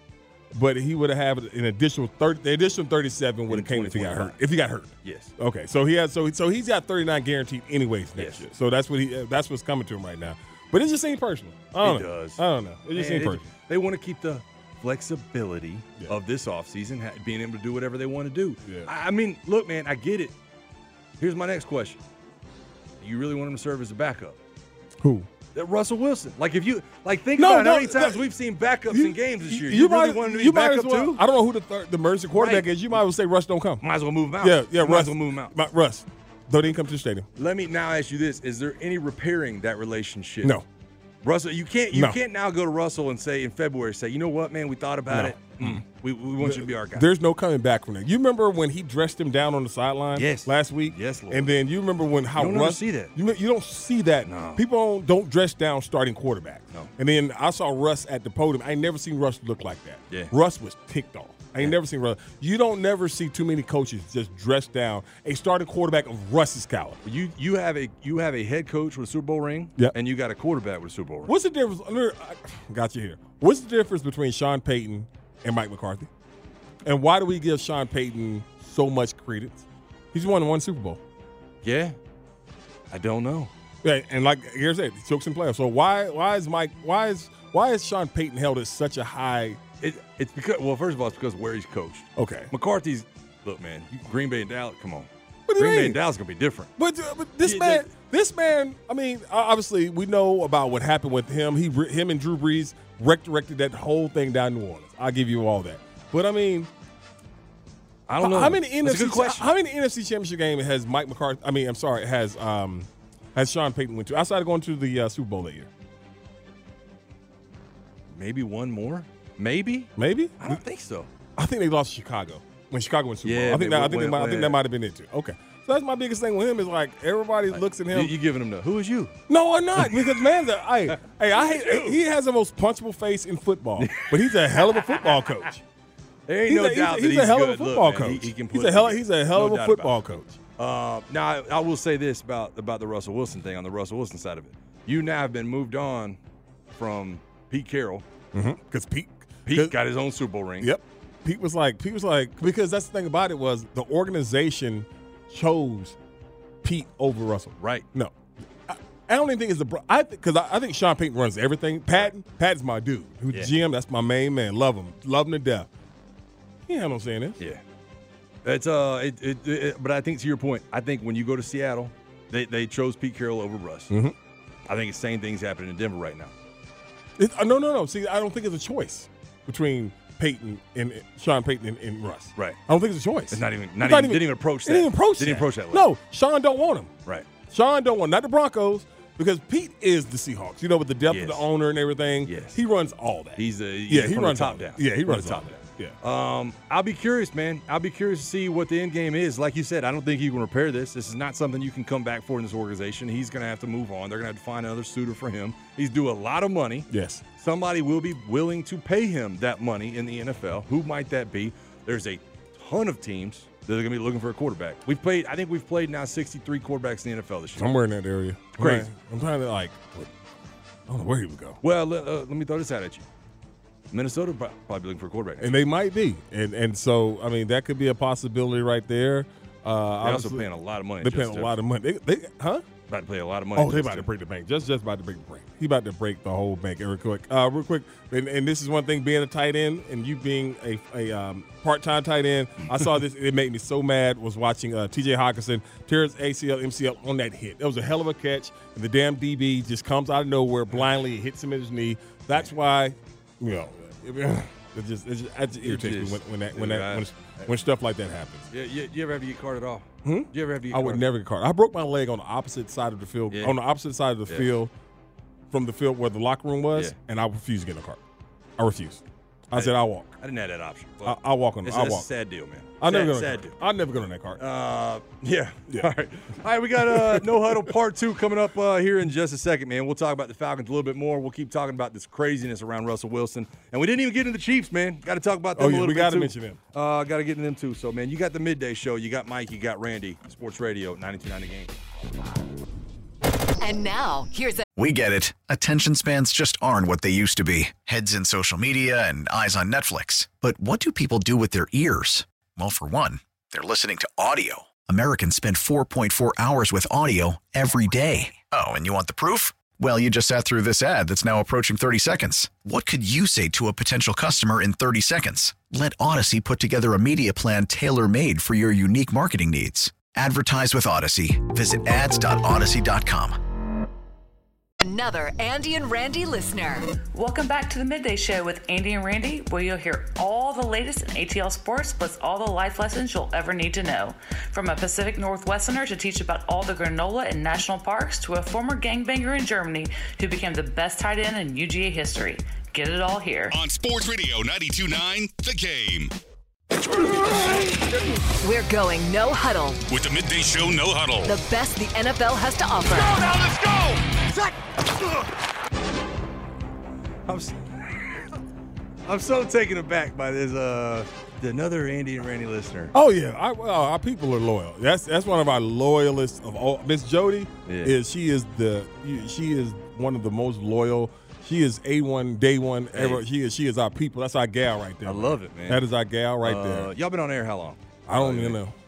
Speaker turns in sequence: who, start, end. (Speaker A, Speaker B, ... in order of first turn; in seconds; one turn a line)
Speaker A: 0.5-13.4
Speaker B: 3.5-4.4
Speaker B: 5.0-5.3
Speaker B: 8.2-8.4
Speaker B: 11.8-20.3
Speaker B: 21.2-22.0
Speaker B: 23.0-24.4
Speaker A: 25.0-25.3
Speaker B: 25.5-31.2
Speaker A: 27.4-28.2
Speaker A: 28.9-33.8
Speaker B: 32.3-32.7
Speaker B: 33.8-35.5
Speaker A: 34.4-37.3
Speaker B: 37.4-40.5
Speaker B: 41.2-47.1
Speaker A: 41.9-42.2
Speaker A: 45.1-45.8
Speaker A: 46.4-67.0
Speaker B: 50.1-51.5
Speaker B: 52.4-53.1
Speaker B: 54.2-54.6
Speaker B: 67.0-71.3
Speaker A: 71.2-76.1
Speaker A: 76.8-81.0
Speaker B: 81.6-82.0
Speaker B: 82.9-83.5
Speaker A: 83.8-89.6
Speaker B: 89.8-96.7
Speaker A: 92.2-92.5
Speaker A: 95.5-96.0
Speaker A: 96.8-106.7
Speaker B: 97.4-97.9
Speaker B: 108.1-109.5
Speaker A: 108.2-115.7
Speaker B: 118.1-121.1
Speaker A: 120.0-120.6
Speaker A: 121.3-128.1
Speaker B: 123.2-124.6
Speaker B: 127.5-129.2
Speaker A: 129.3-135.6
Speaker B: 129.8-130.2
Speaker B: 130.9-132.0
Speaker B: 133.8-134.9
Speaker B: 136.3-140.0
Speaker A: 136.4-140.4
Speaker B: 140.6-146.2
Speaker B: 146.7-148.0
Speaker A: 148.3-149.8
Speaker B: 149.4-150.7
Speaker A: 150.6-156.0
Speaker A: 156.6-158.1
Speaker B: 157.6-157.8
Speaker A: 158.7-165.7
Speaker A: 166.7-167.4
Speaker B: 168.4-173.9
Speaker A: 173.9-174.1
Speaker B: 174.7-176.3
Speaker A: 177.2-186.9
Speaker B: 183.3-185.9
Speaker A: 187.5-195.9
Speaker B: 191.1-191.4
Speaker B: 192.2-192.6
Speaker B: 193.3-217.7
Speaker A: 206.9-207.2
Speaker A: 217.6-220.1
Speaker B: 218.6-218.9
Speaker A: 220.9-221.6
Speaker B: 221.6-223.1
Speaker B: 223.9-225.5
Speaker A: 225.4-230.4
Speaker B: 230.0-231.5
Speaker A: 231.0-232.6
Speaker B: 232.9-234.1
Speaker A: 233.5-258.5
Speaker B: 255.6-257.5
Speaker B: 258.5-261.1
Speaker A: 260.0-264.7
Speaker B: 263.3-263.6
Speaker A: 265.5-268.0
Speaker A: 268.6-270.2
Speaker B: 269.5-273.6
Speaker A: 271.0-272.1
Speaker A: 272.8-274.4
Speaker B: 274.4-291.7
Speaker A: 276.8-277.7
Speaker A: 285.6-286.6
Speaker C: 293.6-294.6
Speaker D: 294.8-323.4
Speaker C: 324.8-326.9
Speaker E: 327.1-343.6
Speaker F: 343.5-346.1
Speaker C: 348.4-349.8
Speaker F: 349.9-351.4
Speaker C: 351.2-353.2
Speaker B: 352.9-355.3
Speaker B: 357.2-358.3
Speaker B: 359.1-362.9
Speaker A: 362.9-376.9
Speaker B: 367.6-367.9
Speaker B: 372.9-373.2
Speaker B: 375.0-375.8
Speaker B: 376.4-378.6
Speaker A: 378.1-378.7